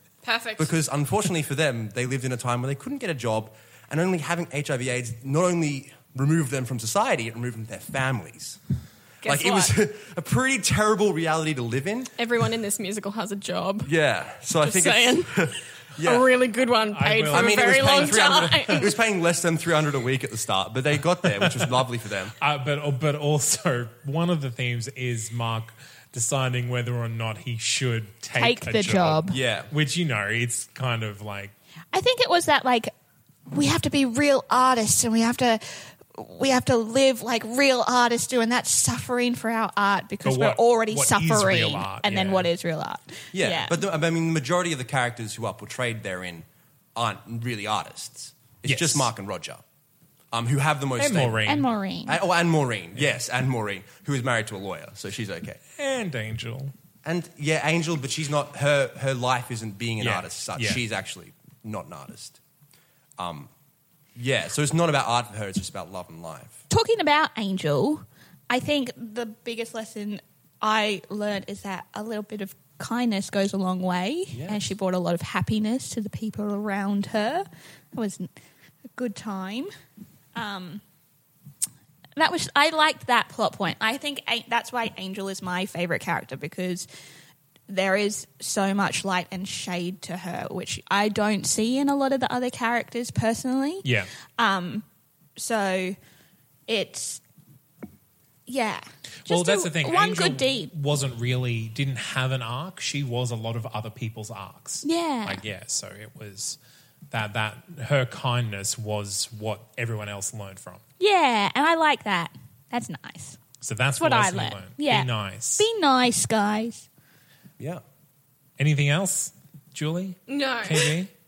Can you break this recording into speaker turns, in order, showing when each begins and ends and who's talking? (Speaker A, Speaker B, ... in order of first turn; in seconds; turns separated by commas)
Speaker A: 0.2-0.7, Speaker B: 0.6-8.6, Speaker A: 9.2-9.8, Speaker B: 9.2-12.1, Speaker A: 12.2-13.9, Speaker B: 13.8-16.3, Speaker A: 14.6-19.0, Speaker C: 16.9-18.9, Speaker B: 17.3-22.4, Speaker C: 21.3-21.9, Speaker C: 22.4-31.5, Speaker D: 28.3-29.4, Speaker B: 29.3-29.7, Speaker D: 31.9-32.9, Speaker D: 33.5-43.8, Speaker C: 40.2-42.5, Speaker B: 43.3-49.6, Speaker C: 48.7-49.1, Speaker B: 50.3-51.5, Speaker C: 51.0-51.7, Speaker D: 51.5-52.2, Speaker B: 52.1-55.6, Speaker C: 55.8-56.7, Speaker B: 57.0-62.4, Speaker C: 60.0-60.8, Speaker B: 63.2-63.5, Speaker B: 64.2-66.6, Speaker D: 66.7-78.3, Speaker B: 74.3-74.6, Speaker D: 79.0-79.7, Speaker D: 80.3-80.8, Speaker D: 82.2-86.9, Speaker D: 87.7-94.8, Speaker C: 93.8-94.1, Speaker D: 95.4-96.0, Speaker D: 96.7-97.2, Speaker D: 98.5-100.7, Speaker C: 99.3-106.6, Speaker D: 104.8-105.4, Speaker C: 107.1-110.8, Speaker D: 111.0-113.4, Speaker C: 113.6-115.7, Speaker D: 114.0-116.9, Speaker C: 118.6-121.1, Speaker A: 120.3-120.9